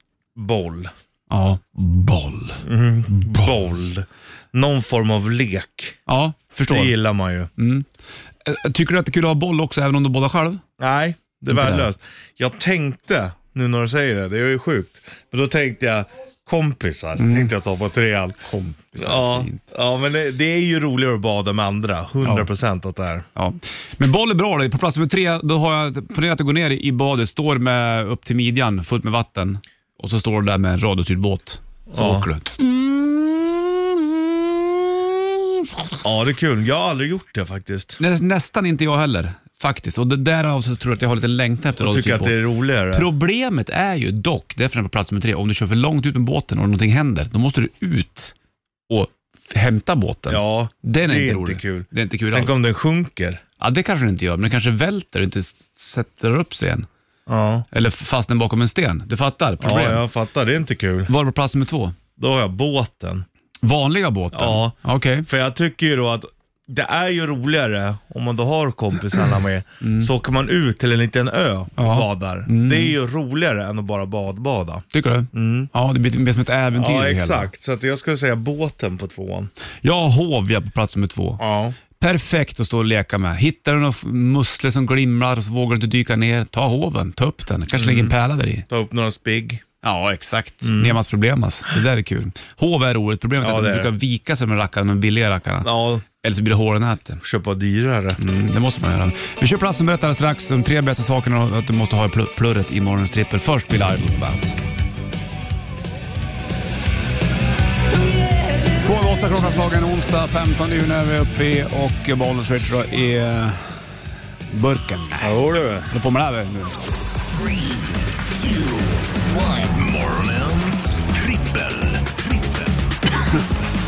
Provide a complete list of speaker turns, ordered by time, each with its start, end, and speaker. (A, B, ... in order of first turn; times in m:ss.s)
0:00.4-0:00.9 A
0:01.3-0:03.5 B
0:02.6-0:06.0 A
0:06.1-0:07.0 B
0:06.7-0:07.5 A
0:07.6-0:07.9 B
0:08.4-0:10.6 B
0:10.8-0:18.4 A
0:11.5-0:11.9 B
0:17.2-0:17.5 B
0:18.4-0:19.7 B
0:19.0-0:23.2 A
0:22.2-0:22.5 B
0:23.4-0:32.6 B
0:31.9-0:33.6 A
0:36.0-0:38.0 A
0:38.0-0:42.4 B
0:41.8-0:43.1 A
0:42.9-0:48.3 B
0:48.9-0:52.6 B
0:50.3-0:53.4 A
0:53.6-0:56.9 B
0:57.3-0:57.7 A
0:57.7-1:00.0 B
0:59.6-1:01.1 A
1:01.1-1:02.0 B
1:02.2-1:03.2 A
1:03.6-1:05.3 B
1:04.3-1:15.7 A
1:09.8-1:10.1 B
1:11.8-1:13.0 B
1:14.9-1:17.5 B
1:16.7-1:19.5 A
1:19.8-1:21.4 B
1:21.4-1:21.8 A
1:22.0-1:28.7 B
1:27.7-1:28.2 A
1:28.7-1:29.6 A
1:29.8-1:37.2 B
1:30.6-1:31.0 A
1:33.4-1:33.9 A
1:35.6-1:36.0 A
1:37.2-1:38.2 A
1:38.2-1:44.6 B
1:48.8-1:53.8 B
1:54.5-1:56.8 B
1:55.2-1:55.9 A
1:58.4-2:02.7 C